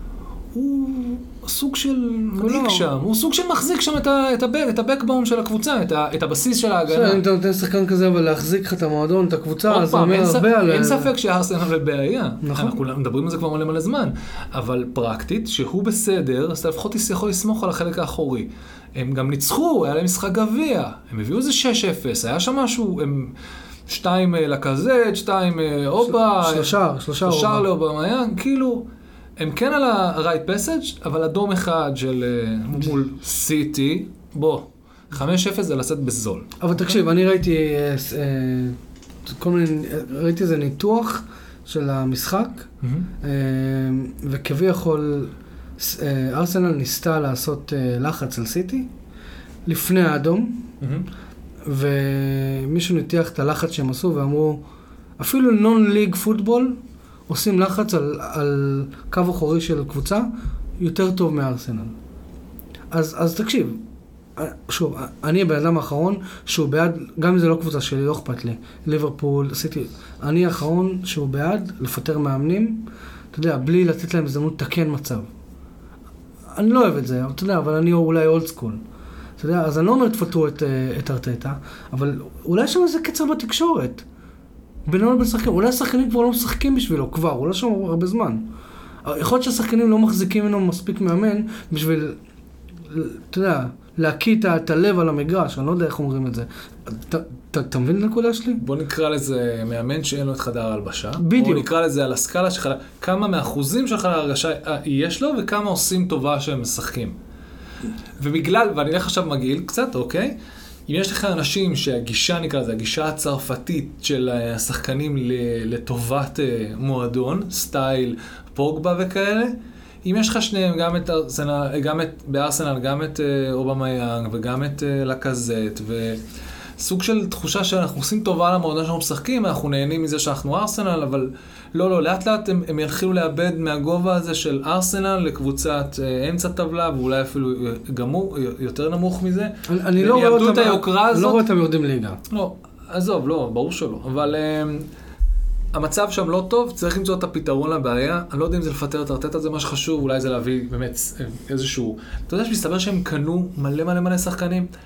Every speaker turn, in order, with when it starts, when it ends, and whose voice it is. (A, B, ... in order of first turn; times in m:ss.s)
0:00.5-0:07.2 A
0:02.4-0:02.9 B
0:06.9-0:11.1 B
0:09.7-0:23.4 A
0:12.4-0:12.8 B
0:23.9-0:28.9 A
0:26.1-0:27.7 B
0:29.4-0:36.9 A
0:36.6-0:42.7 B
0:42.8-0:43.1 A
0:43.2-0:48.9 B
0:49.7-0:50.7 B
0:50.8-0:51.1 A
0:51.7-0:54.6 B
0:55.2-0:56.8 B
0:57.3-1:01.9 B
1:02.9-1:03.8 B
1:04.4-1:15.3 B
1:16.6-1:18.8 B
1:19.4-1:24.0 B
1:24.9-1:28.5 B
1:29.0-1:32.2 B
1:32.9-1:38.6 B
1:38.6-1:47.2 A
1:41.2-1:41.7 B
1:48.2-1:50.4 A
1:50.9-2:06.2 A
2:06.8-2:21.4 A
2:19.7-2:22.2 B
2:22.3-2:24.9 A
2:25.7-2:34.7 A